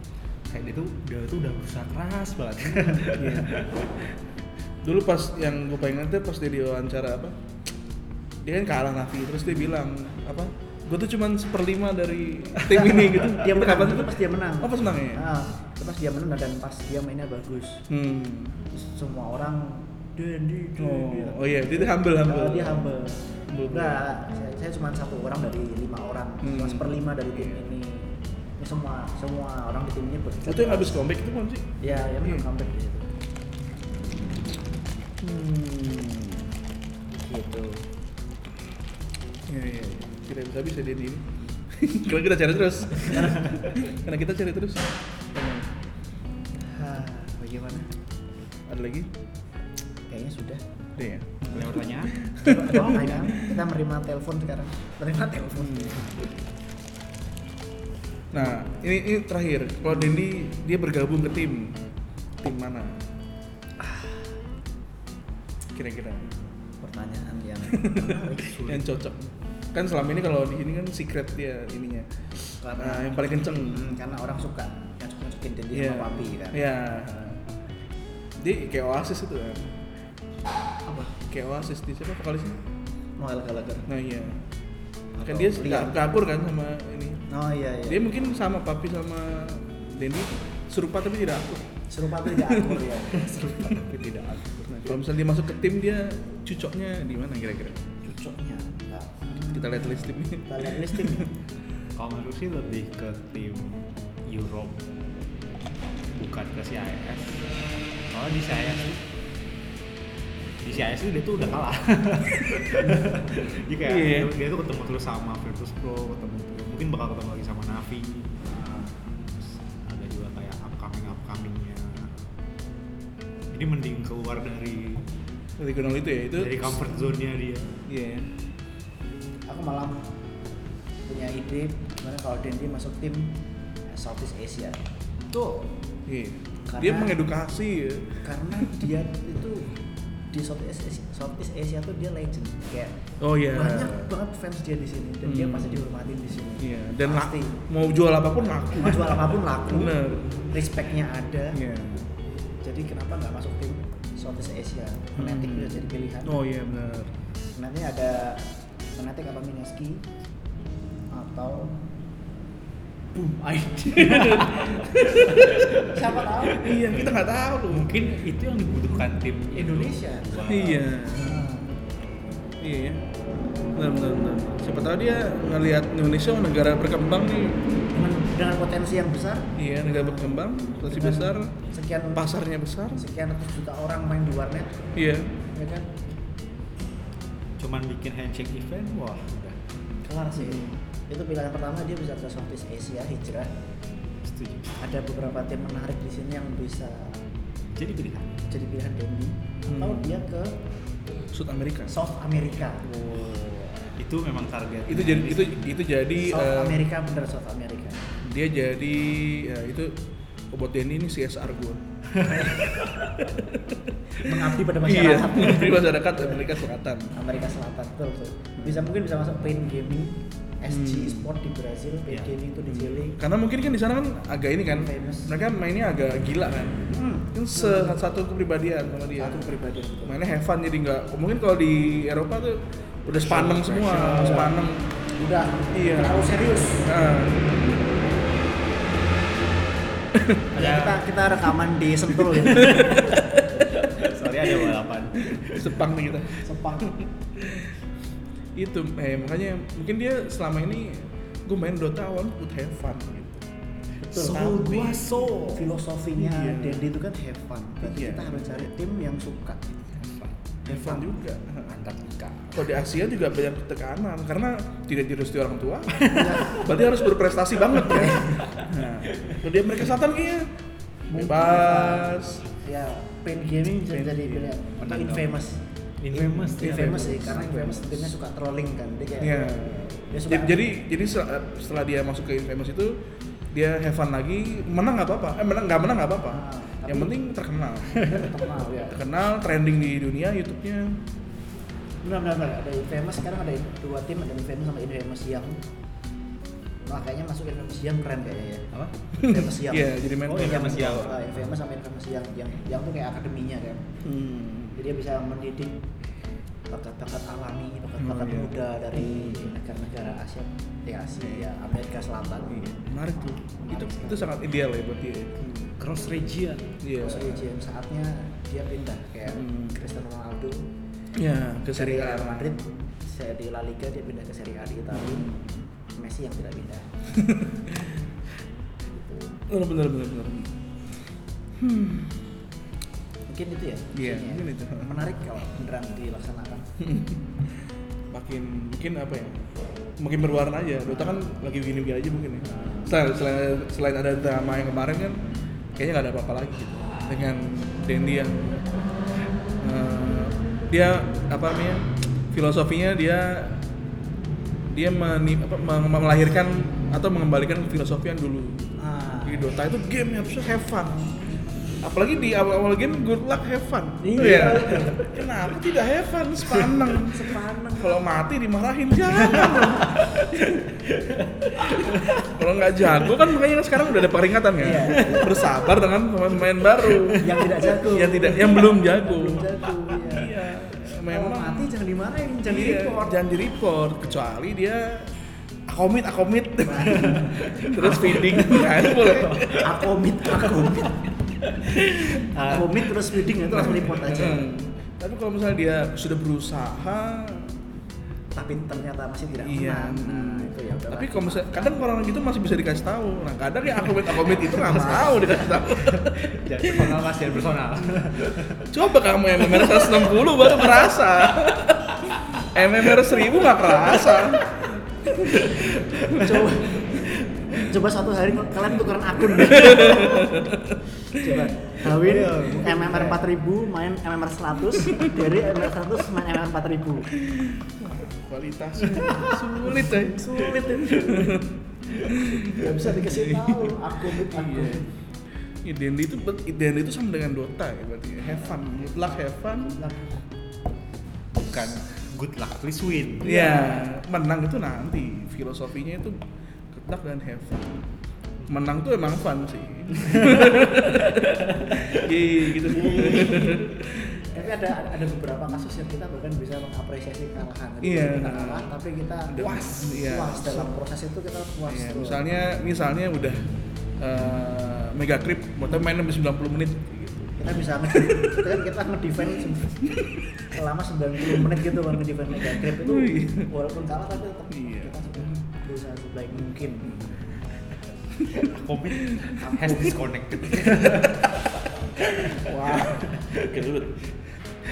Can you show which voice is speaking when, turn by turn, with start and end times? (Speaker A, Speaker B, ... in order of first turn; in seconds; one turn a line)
Speaker A: 0.5-4.1
Speaker B: 3.1-3.7
Speaker B: 4.8-7.3
Speaker B: 8.4-15.3
Speaker C: 12.6-17.9
Speaker B: 17.9-18.6
Speaker C: 18.7-31.1
Speaker B: 20.8-22.9
Speaker B: 23.5-24.0
Speaker B: 26.4-27.7
Speaker B: 30.5-31.7
Speaker C: 31.8-33.1
Speaker B: 35.2-36.5
Speaker C: 37.1-37.9
Speaker B: 39.5-45.7
Speaker C: 43.1-43.4
Speaker C: 46.7-47.9
Speaker B: 48.7-49.1
Speaker C: 50.1-50.6
Speaker B: 51.0-53.6
Speaker A: 51.5-52.1
Speaker C: 52.4-56.1
Speaker B: 55.6-56.1
Speaker B: 58.3-61.8
Speaker C: 59.9-60.2
Speaker B: 62.4-63.0
Speaker C: 63.8-64.3
Speaker B: 65.7-66.4
Speaker C: 66.8-68.9
Speaker B: 67.7-69.2
Speaker B: 69.7-72.1
Speaker C: 72.6-76.6
Speaker B: 72.8-73.9
Speaker B: 75.7-77.4
Speaker B: 78.4-79.8
Speaker B: 80.9-82.6
Speaker C: 83.2-83.9
Speaker B: 83.9-84.5
Speaker C: 85.2-86.0
Speaker B: 85.2-87.3
Speaker C: 87.3-88.1
Speaker B: 87.9-91.7
Speaker C: 91.9-93.7
Speaker B: 92.2-92.8
Speaker A: 93.1-95.0
Speaker B: 94.7-97.8
Speaker C: 98.0-101.3
Speaker B: 99.4-101.3
Speaker A: 102.0-104.9
Speaker A: 106.1-109.1
Speaker A: 110.6-118.5
Speaker C: 112.8-113.2
Speaker B: 113.8-114.3
Speaker C: 118.5-118.9
Speaker A: 119.7-122.3
Speaker A: 123.5-125.1
Speaker B: 125.6-127.0
Speaker A: 126.4-127.8
Speaker B: 127.9-128.3
Speaker C: 129.5-130.1
Speaker C: 131.1-133.4
Speaker C: 133.9-134.8
Speaker C: 135.3-135.6
Speaker B: 136.1-138.9
Speaker C: 136.7-137.2
Speaker C: 138.2-139.8
Speaker C: 140.3-143.0
Speaker B: 143.2-144.1
Speaker C: 143.5-147.7
Speaker B: 145.2-145.8
Speaker B: 146.6-150.7
Speaker C: 148.4-151.6
Speaker B: 151.5-152.1
Speaker C: 152.6-156.4
Speaker B: 155.2-157.1
Speaker C: 157.6-160.0
Speaker C: 161.1-161.8
Speaker C: 163.2-167.0
Speaker B: 163.9-166.0
Speaker A: 165.4-165.8
Speaker B: 166.6-167.9
Speaker A: 167.7-170.9
Speaker C: 169.5-170.6
Speaker B: 170.4-171.6
Speaker C: 171.2-171.7
Speaker B: 172.6-173.0
Speaker B: 173.8-177.6
Speaker C: 177.9-182.3
Speaker B: 179.6-181.6
Speaker B: 182.1-183.1
Speaker C: 183.0-184.9
Speaker B: 185.0-185.3
Speaker C: 185.5-185.9
Speaker A: 187.6-189.6
Speaker C: 190.0-193.5
Speaker B: 190.4-190.8
Speaker A: 194.2-194.8
Speaker C: 194.8-197.2
Speaker A: 197.7-198.4
Speaker C: 198.5-200.6
Speaker B: 199.7-200.2
Speaker B: 201.3-201.9
Speaker C: 201.9-202.9
Speaker A: 202.8-205.8
Speaker B: 204.9-206.8
Speaker C: 206.1-208.1
Speaker B: 208.2-209.9
Speaker B: 210.5-211.8
Speaker A: 212.1-212.4
Speaker C: 212.3-212.9
Speaker B: 213.1-217.1
Speaker C: 214.2-216.5
Speaker C: 217.1-223.2
Speaker B: 218.6-218.8
Speaker B: 220.7-221.3
Speaker B: 222.7-229.5
Speaker C: 224.7-225.3
Speaker C: 226.9-228.0
Speaker C: 229.2-230.2
Speaker B: 230.0-234.8
Speaker A: 233.1-234.5
Speaker C: 234.0-234.6
Speaker C: 235.1-237.0
Speaker B: 235.7-238.0
Speaker B: 240.2-240.4
Speaker A: 240.5-241.2
Speaker C: 240.6-243.4
Speaker B: 242.3-247.7
Speaker A: 243.9-245.9
Speaker C: 246.4-247.0
Speaker B: 248.6-253.4
Speaker C: 254.0-259.9
Speaker A: 254.1-255.7
Speaker B: 254.2-255.1
Speaker B: 256.2-256.9
Speaker B: 257.8-258.7
Speaker A: 260.0-260.5
Speaker B: 260.6-261.8
Speaker C: 260.7-261.1
Speaker A: 261.7-262.7
Speaker B: 262.5-270.5
Speaker A: 265.9-266.5
Speaker C: 266.1-267.1
Speaker C: 267.9-268.5
Speaker A: 268.0-269.4
Speaker B: 271.1-272.4
Speaker C: 271.1-280.6
Speaker B: 273.9-274.6
Speaker A: 274.8-275.4
Speaker A: 276.0-277.5
Speaker B: 276.4-278.1
Speaker B: 279.2-283.0
Speaker B: 283.5-291.0
Speaker C: 286.3-287.2
Speaker C: 287.9-289.0
Speaker C: 292.0-295.6
Speaker C: 296.9-303.9
Speaker A: 298.7-299.0
Speaker B: 299.2-301.0
Speaker A: 300.3-301.6
Speaker B: 304.0-304.8
Speaker C: 304.8-305.8
Speaker C: 306.7-312.8
Speaker B: 308.0-309.5
Speaker B: 311.2-311.5
Speaker B: 312.5-315.7
Speaker C: 313.7-314.3
Speaker A: 315.8-316.8
Speaker B: 316.8-317.4
Speaker C: 316.9-320.7
Speaker B: 319.3-319.8
Speaker B: 321.1-322.6
Speaker C: 321.7-326.9
Speaker B: 324.9-325.5
Speaker B: 327.1-327.9
Speaker C: 328.9-329.4
Speaker B: 329.5-330.6
Speaker B: 331.6-332.2
Speaker C: 333.3-336.7
Speaker B: 333.9-334.9
Speaker B: 336.8-337.2
Speaker B: 338.1-345.2
Speaker C: 340.9-341.2
Speaker C: 342.4-343.0
Speaker B: 345.8-348.7
Speaker B: 349.6-353.6
Speaker B: 354.7-358.7
Speaker C: 358.8-359.6
Speaker B: 359.2-361.2
Speaker B: 361.8-370.9
Speaker C: 364.0-365.1
Speaker C: 366.5-367.9
Speaker A: 369.2-372.3
Speaker B: 371.5-381.7
Speaker C: 374.6-375.6
Speaker A: 376.6-377.5
Speaker C: 377.2-380.3
Speaker C: 381.1-383.2
Speaker B: 382.5-385.1
Speaker B: 385.7-389.9
Speaker C: 386.6-391.1
Speaker A: 387.0-388.0
Speaker A: 388.5-389.6
Speaker B: 391.6-397.6
Speaker C: 392.1-394.5
Speaker C: 398.4-401.9
Speaker B: 399.4-407.1
Speaker A: 404.1-408.9
Speaker C: 404.7-405.0
Speaker B: 408.0-417.6
Speaker A: 409.4-411.3
Speaker C: 415.2-420.4
Speaker A: 415.6-415.9
Speaker B: 419.4-421.5
Speaker C: 421.1-427.1
Speaker A: 421.9-423.2
Speaker B: 424.9-425.2
Speaker B: 427.2-434.9
Speaker A: 428.9-429.1
Speaker C: 429.1-431.4
Speaker C: 432.4-434.9
Speaker B: 435.6-439.8
Speaker C: 438.3-440.1
Speaker A: 441.3-443.6
Speaker B: 443.2-447.7
Speaker C: 443.2-443.8
Speaker B: 448.5-454.4
Speaker C: 451.7-452.0
Speaker C: 452.6-462.2
Speaker B: 457.8-458.7
Speaker B: 459.3-460.7
Speaker B: 461.7-468.6
Speaker C: 467.4-477.0
Speaker B: 469.9-470.4
Speaker B: 471.3-471.6
Speaker B: 472.3-473.5
Speaker B: 474.5-475.4
Speaker B: 476.8-477.2
Speaker B: 478.2-479.7
Speaker A: 478.3-481.4
Speaker C: 479.4-479.9
Speaker B: 480.4-484.1
Speaker A: 482.2-483.7